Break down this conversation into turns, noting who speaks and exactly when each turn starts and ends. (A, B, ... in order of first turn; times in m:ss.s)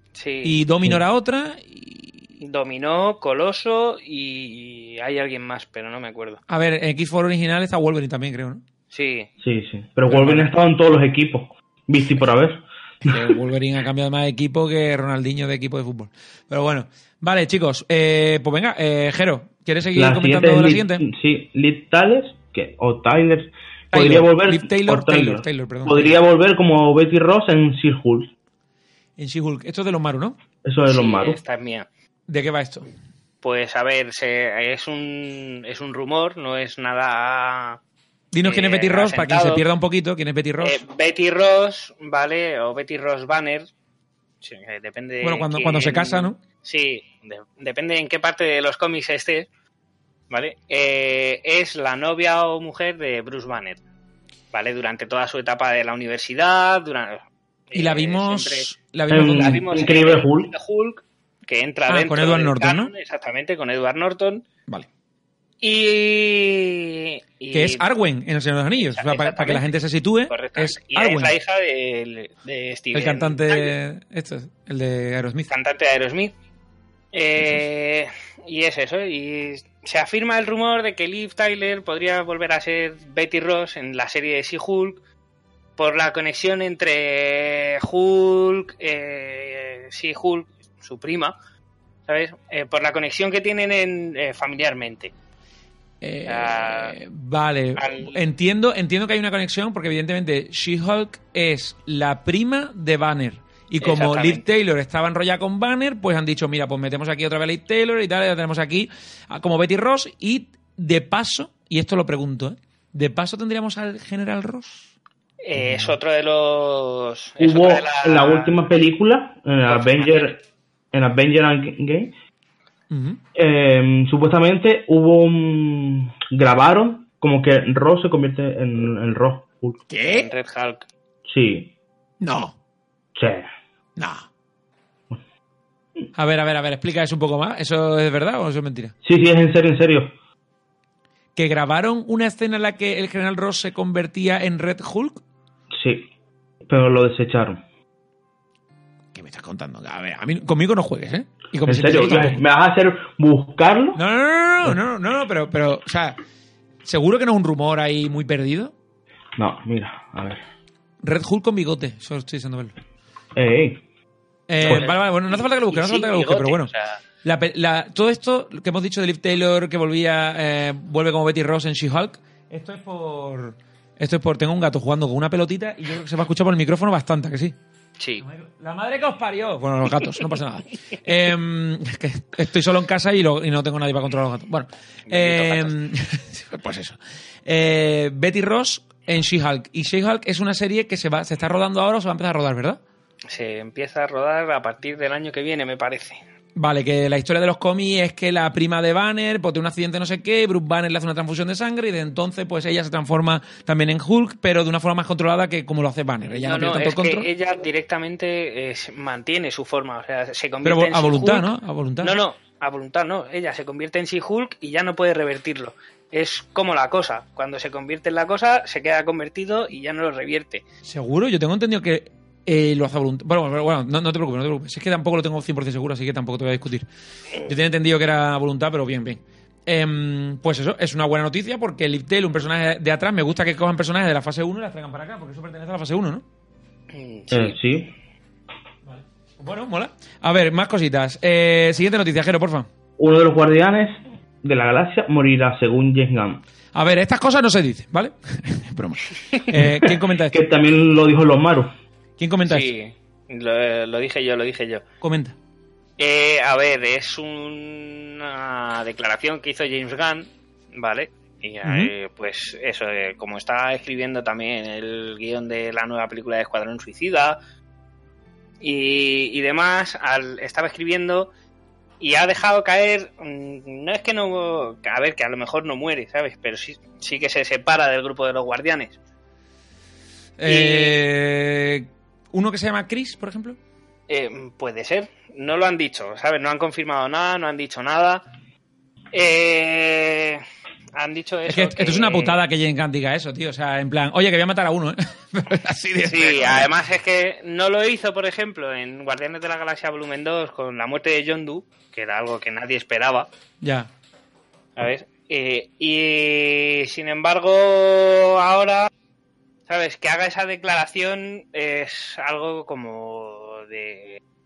0:00.2-0:00.6 A
0:00.4-0:02.3 B
0:02.4-0:06.4 A
0:06.5-0:08.6 B
0:08.9-0:09.3 A
0:09.4-0:13.2 C
0:10.1-0:10.5 B
0:13.0-0:21.1 B
0:20.0-0:28.3 C
0:23.9-0:26.2 B
0:29.2-0:30.4 B
0:30.6-0:31.4 C
0:30.9-0:31.9 A
0:32.3-0:32.9 B
0:33.4-0:37.8 A
0:38.3-0:40.8 B
0:38.4-0:39.6 A
0:40.6-0:43.7 A
0:44.4-0:49.5 A
0:45.2-0:46.4 B
0:50.3-0:53.8 A
0:54.5-1:04.4 A
0:57.7-0:59.6 B
0:59.1-1:00.5 C
1:01.9-1:02.9 B
1:05.6-1:07.9 A
1:07.5-1:11.4 B
1:08.8-1:09.7 A
1:10.3-1:13.7 A
1:12.9-1:15.5 B
1:15.5-1:16.3 A
1:17.1-1:25.0 A
1:25.8-1:31.4 A
1:32.1-1:35.1 A
1:36.0-1:54.9 B
1:36.3-1:37.0 A
1:37.8-1:38.2 A
1:43.8-1:44.4 A
1:55.4-1:58.6 A
1:55.6-1:55.9 B
1:57.4-2:00.4 C
1:59.7-2:00.4 A
2:00.9-2:02.1 C
2:02.9-2:03.2 B
2:03.4-2:09.8 C
2:09.9-2:10.3 B
2:10.0-2:10.9 A
2:11.3-2:11.7 C
2:12.2-2:12.6 B
2:13.2-2:13.5 C
2:14.0-2:14.3 B
2:16.2-2:18.9 B
2:19.0-2:20.1 C
2:21.4-2:25.2 B
2:25.7-2:26.1 C
2:26.7-2:27.6 C
2:29.1-2:32.4 B
2:31.7-2:34.0 C
2:34.0-2:36.2 B
2:36.8-2:38.7 B
2:39.4-2:40.4 C
2:41.0-2:42.7 B
2:43.4-2:43.8 C
2:44.5-2:46.7 B
2:44.6-2:47.0 A
2:44.6-2:44.9 C
2:47.2-2:57.6 B
2:58.0-2:58.2 A
2:58.2-3:12.8 B
3:05.1-3:05.8 A
3:13.3-3:16.2 A
3:16.6-3:27.3 B
3:26.3-3:40.6 A
3:30.6-3:32.2 B
3:40.8-3:46.9 B
3:47.4-3:56.2 B
3:56.9-3:57.6 A
3:57.3-3:57.9 C
3:58.9-4:02.7 B
4:03.0-4:06.4 C
4:06.7-4:10.4 B
4:09.5-4:11.7 C
4:12.2-4:12.7 B
4:12.4-4:14.8 A
4:15.0-4:15.4 B
4:16.0-4:27.4 A
4:21.6-4:21.9 B
4:28.6-4:31.3 A
4:32.0-4:39.0 A
4:40.4-4:43.6 B
4:40.5-4:41.0 A
4:44.1-4:48.2 A
4:49.1-4:50.4 A
4:51.0-4:52.4 A
4:51.5-4:56.7 B
4:56.0-5:03.3 A
5:03.6-5:03.9 B
5:04.8-5:08.9 A
5:09.7-5:14.2 A